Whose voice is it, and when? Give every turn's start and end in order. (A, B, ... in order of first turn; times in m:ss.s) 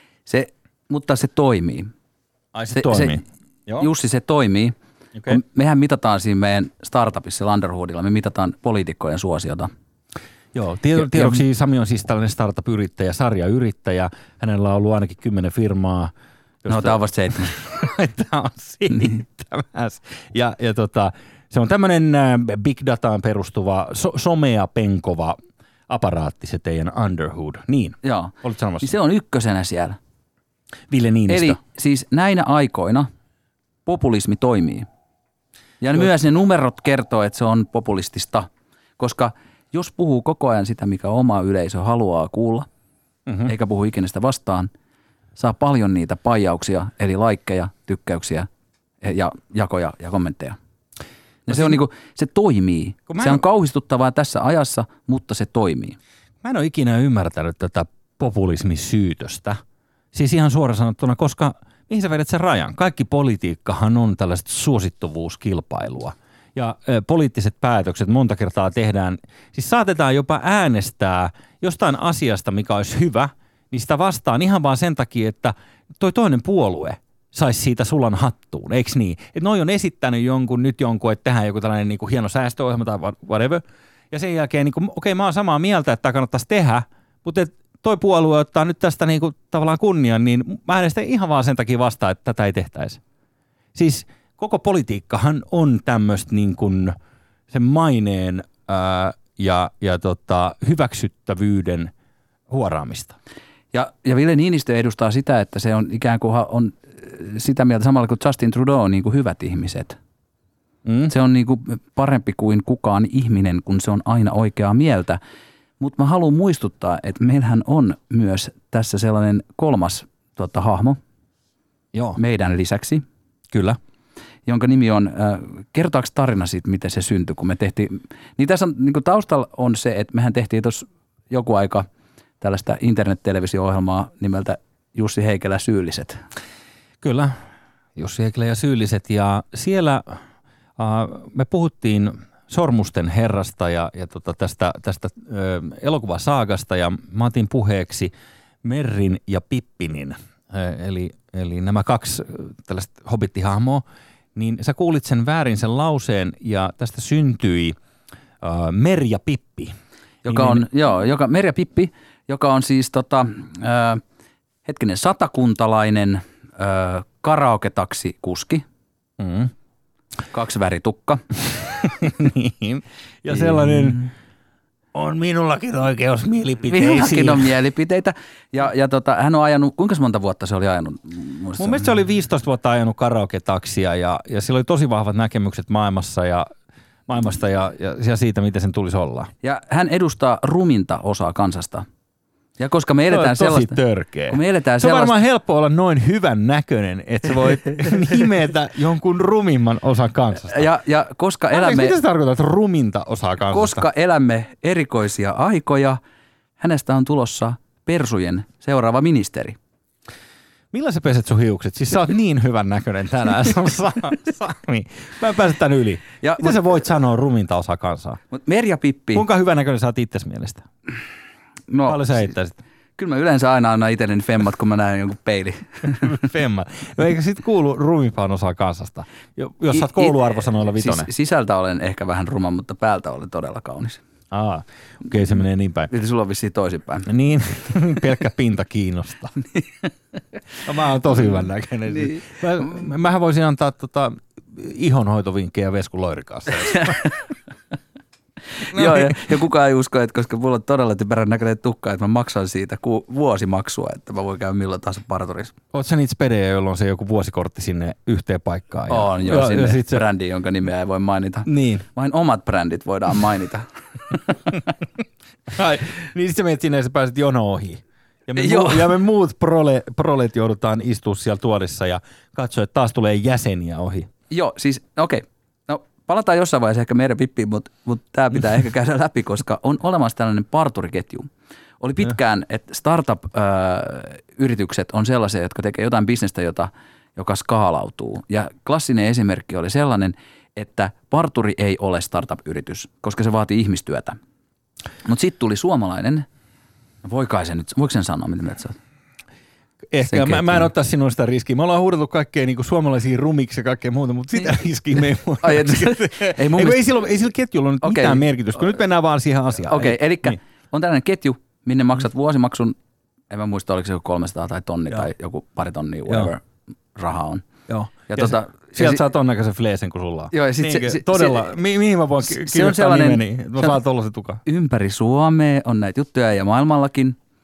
0:00.3-0:01.9 A
0:02.5-0:03.9 B
0:02.8-0:03.2 A
0:03.8-0:04.8 A
0:05.3-0:09.7 A
0:10.5-0:16.1 B
0:11.0-0:11.4 A
0:16.6-0:25.4 B
0:16.7-0:17.5 A
0:25.9-0:28.9 B
0:28.0-0:30.0 A
0:30.9-0:31.6 B
0:31.3-0:33.1 A
0:33.9-0:34.9 A
0:35.8-0:42.7 A
0:43.3-0:43.5 B
0:43.5-0:44.7 A
0:45.4-0:48.5 A
0:49.0-0:50.6 A
0:51.5-0:56.0 A
0:51.5-0:51.8 B
0:53.1-0:53.4 B
0:56.4-0:59.6 B
1:00.1-1:33.0 B
1:33.8-1:37.0 B
1:37.5-1:41.9 B
1:42.5-1:43.2 B
1:43.7-1:50.0 A
1:50.8-1:51.1 B
1:51.1-1:55.2 A
1:55.8-2:01.0 A
2:01.9-2:02.2 B
2:02.2-2:03.0 A
2:03.5-2:03.8 B
2:04.5-2:11.9 A
2:12.4-2:16.2 A
2:17.0-2:17.4 B
2:18.0-2:20.2 B
2:20.8-2:28.1 B
2:28.6-2:33.8 B
2:34.4-2:37.8 B
2:38.4-2:39.7 B
2:40.2-2:40.6 B
2:40.3-2:44.0 A
2:44.6-2:48.6 A
2:49.2-2:49.5 B
2:50.3-2:51.2 A
2:51.7-2:54.1 B
2:53.3-2:54.1 A
2:54.9-2:57.5 B
2:56.7-3:01.9 A
3:01.6-3:06.5 B
3:07.1-3:09.3 B
3:09.4-3:11.9 A
3:12.6-3:13.8 A
3:13.1-3:20.7 B
3:14.3-3:15.2 A
3:20.5-3:22.0 A
3:21.5-3:23.8 B
3:23.5-3:26.0 A
3:26.6-3:29.6 A
3:30.7-3:38.2 B
3:36.2-3:36.6 A
3:38.3-3:39.2 A
3:39.1-3:40.7 B
3:41.7-3:42.3 A
3:41.8-3:42.6 B
3:43.0-3:46.1 A
3:46.0-3:51.1 B
3:49.7-3:54.0 A
3:54.3-3:55.9 B
3:55.9-3:57.1 A
3:57.1-3:59.4 B
4:00.6-4:07.1 B
4:02.0-4:02.2 A
4:06.6-4:07.2 A
4:08.7-4:15.6 A
4:08.7-4:09.3 B
4:15.7-4:20.0 B
4:18.9-4:24.6 A
4:21.4-4:21.9 B
4:25.5-4:34.1 B
4:28.4-4:29.0 A
4:34.3-4:41.3 A
4:41.8-4:54.2 A
4:55.0-4:56.3 A
4:57.0-4:58.8 A
4:59.9-5:10.4 B
5:00.1-5:00.7 A
5:05.4-5:06.8 A
5:07.8-5:08.2 A
5:09.7-5:12.8 A
5:13.3-5:16.4 A
5:17.0-5:17.5 A
5:17.7-5:24.4 B
5:18.1-5:19.0 A
5:20.3-5:21.6 A
5:22.3-5:23.8 A
5:24.5-5:27.2 A